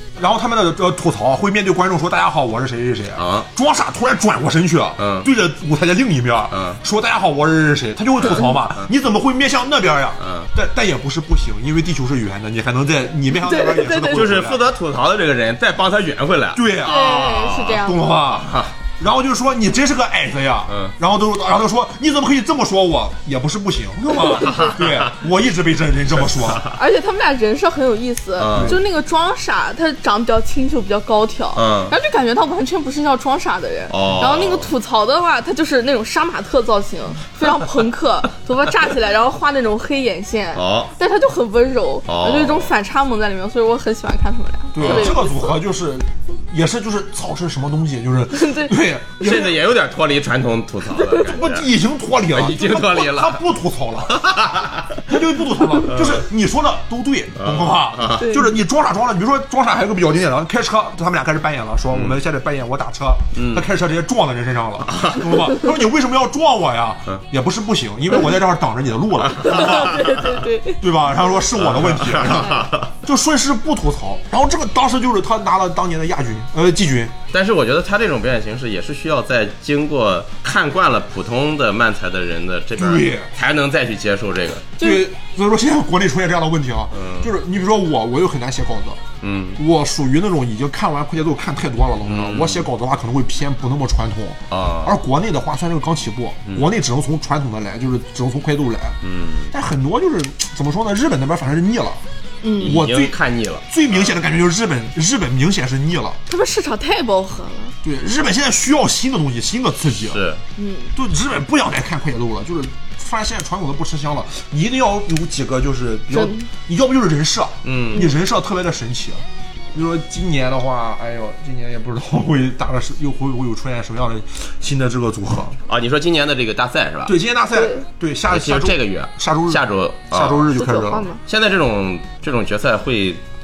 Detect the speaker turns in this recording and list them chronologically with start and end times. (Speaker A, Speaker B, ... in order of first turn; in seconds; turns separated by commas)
Speaker A: 0.2-14.6, Speaker B: 3.2-3.5, Speaker B: 5.0-5.3, Speaker B: 6.5-6.8, Speaker B: 8.2-8.5, Speaker B: 10.2-10.5, Speaker C: 13.3-14.3, Speaker B: 14.1-18.7, Speaker A: 16.6-26.6, Speaker C: 16.8-18.1, Speaker B: 20.7-20.9, Speaker B: 24.3-24.9, Speaker B: 26.4-26.7, Speaker C: 26.7-45.6, Speaker B: 28.4-28.8, Speaker A: 28.5-28.8, Speaker B: 31.6-31.9, Speaker B: 33.9-34.7, Speaker B: 40.5-40.9, Speaker B: 42.1-42.7, Speaker A: 44.7-49.6, Speaker B: 44.8-45.2, Speaker C: 48.3-48.8, Speaker B: 49.2-51.7, Speaker A: 51.1-54.2, Speaker B: 52.3-53.4, Speaker B: 54.1-55.0, Speaker A: 55.1-77.2, Speaker B: 55.9-56.2, Speaker B: 57.4-58.3, Speaker C: 58.2-58.6, Speaker B: 61.9-62.2, Speaker B: 63.4-63.6, Speaker B: 64.9-65.4, Speaker C: 69.5-70.8, Speaker B: 69.8-70.1, Speaker B: 71.6-72.9, Speaker C: 72.4-72.7, Speaker B: 77.3-84.7, Speaker A: 82.8-83.3, Speaker A: 84.8-89.0, Speaker B: 86.9-87.3, Speaker B: 89.2-89.6, Speaker A: 89.6-99.0, Speaker B: 92.0-92.7, Speaker B: 94.5-95.0, Speaker B: 99.0-99.5, Speaker A: 99.5-102.0, Speaker C: 102.4-102.8, Speaker B: 102.6-104.2, Speaker A: 102.6-103.2, Speaker A: 103.7-106.2, Speaker C: 106.3-107.8, Speaker A: 107.8-110.2, Speaker B: 110.0-110.4, Speaker C: 110.6-110.9, Speaker A: 111.0-125.6, Speaker C: 116.1-116.5, Speaker B: 117.6-118.1, Speaker B: 125.7-127.2, Speaker A: 127.1-131.1, Speaker C: 127.5-127.9, Speaker B: 128.3-130.5, Speaker C: 130.6-131.2, Speaker B: 131.2-133.2